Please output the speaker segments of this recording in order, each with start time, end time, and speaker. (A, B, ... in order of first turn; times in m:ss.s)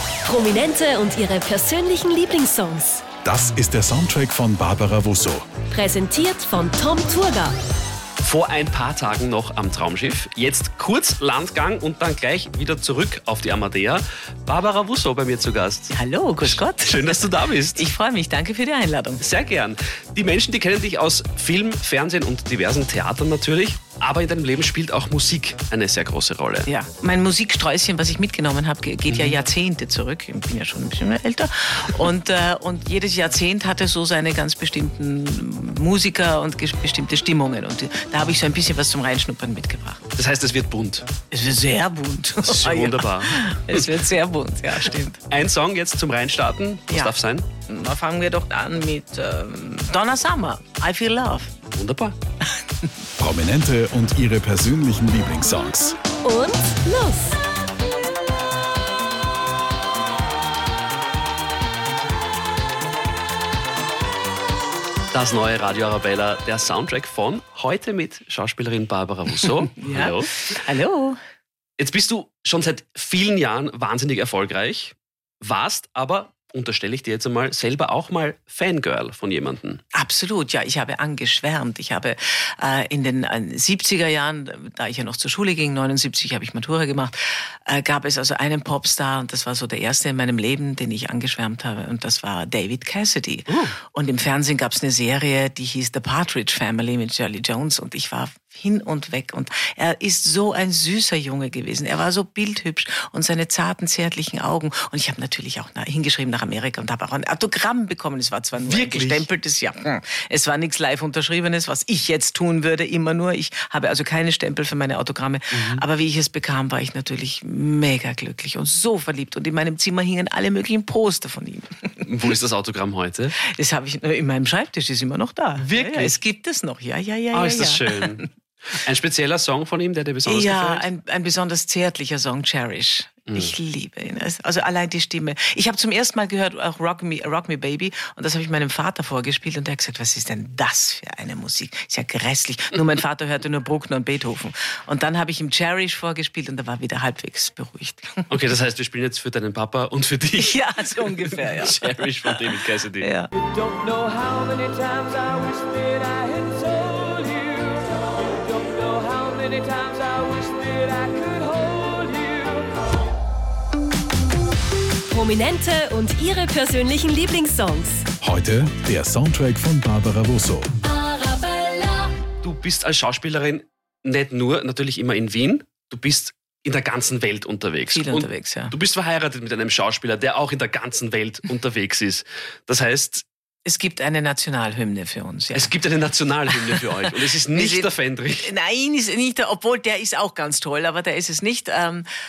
0:00.2-0:03.0 A
0:03.2-0:05.5 B
0:05.7-0:07.6 A
0:08.2-0:15.9 C
0:15.9-0:19.2 D
0:16.4-0:17.8 C
0:19.2-0:26.7 C
0:26.7-0:40.0 D
0:29.1-0:29.4 C
0:40.2-0:41.1 C
0:41.3-0:45.2 D
0:42.4-0:43.9 C
0:45.3-0:47.4 C
0:46.9-0:47.1 D
0:47.7-0:51.5 D
0:51.7-0:52.1 C
0:53.2-0:56.0 B
0:56.1-0:57.4 A
1:05.1-1:10.3 C
1:09.7-1:11.2 D
1:11.8-1:19.8 C
1:19.9-1:27.1 D
1:27.6-2:02.0 D
1:33.5-1:33.7 C
1:48.6-1:49.3 C
1:55.5-1:55.8 C
2:02.0-2:03.4 C
2:03.4-2:08.2 D
2:05.6-2:06.2 C
2:07.3-2:10.9 C
2:10.2-2:28.3 D
2:28.3-2:33.1 C
2:30.4-2:32.4 D
2:33.0-2:33.3 D
2:33.6-2:37.8 E
2:38.4-2:42.6 E
2:45.1-2:48.0 A
2:48.2-2:50.7 B
2:51.0-2:52.1 A
2:52.4-3:03.2 C
2:57.9-2:58.7 D
3:03.6-3:05.7 D
3:05.5-3:08.5 C
3:06.5-3:12.0 D